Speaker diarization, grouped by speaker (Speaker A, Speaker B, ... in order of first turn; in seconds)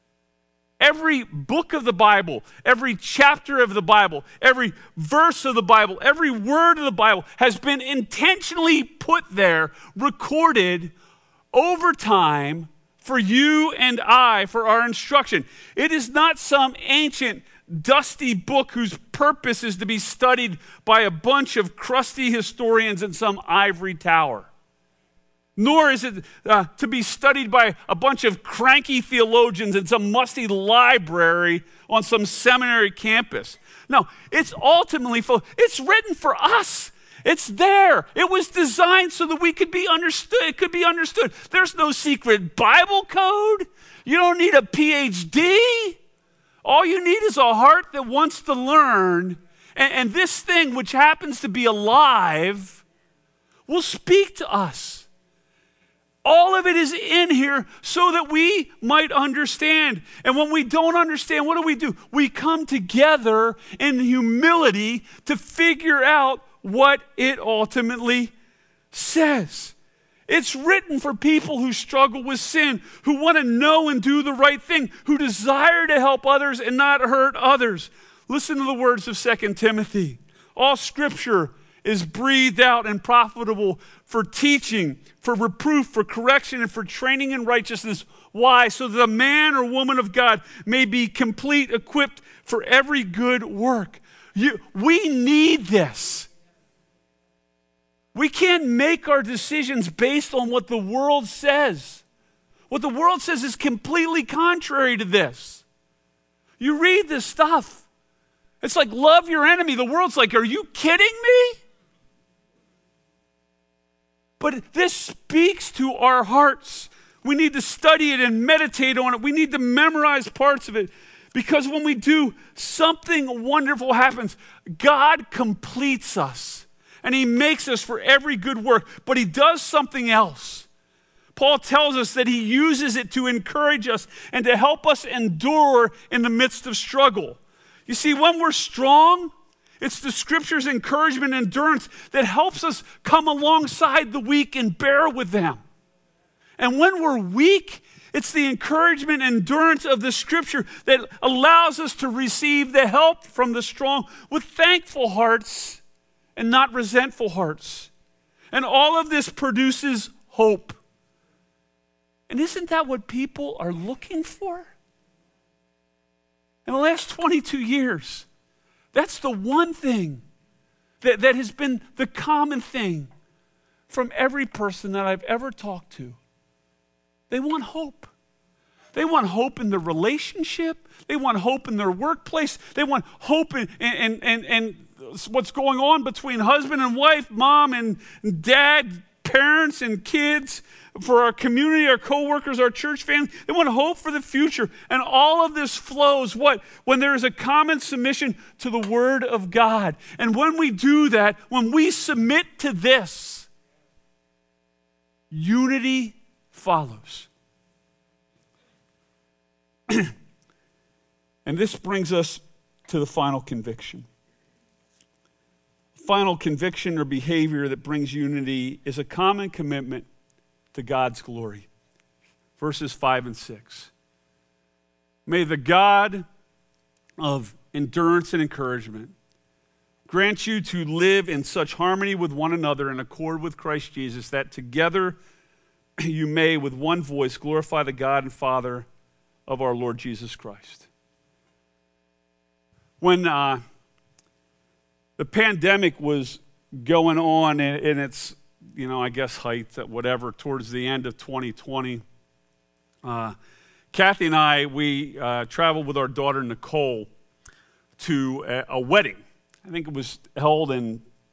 Speaker A: 0.8-10.9, 11.5-24.5, 25.6-46.0, 46.6-52.8, 53.7-55.1, 56.2-68.3, 68.9-69.8, 70.3-96.3, 98.1-102.0, 102.7-105.6, 106.6-107.8, 108.6-111.6, 114.4-130.7, 131.3-145.6, 146.6-155.8, 156.4-157.9, 158.5-160.8, 162.3-164.7, 166.7-168.3, 168.9-170.2, 171.0-173.1, 173.9-176.2, 177.3-178.1, 178.9-203.5, 205.3-207.3, 211.4-214.1, 216.0-220.1, 220.7-221.7, 222.6-223.9, 225.3-226.3, 227.2-229.1, 230.1-235.2, 236.0-238.9, 239.5-240.9, 243.0-243.6, 245.2-252.0, 253.0-253.3, 253.9-257.1, 258.0-261.0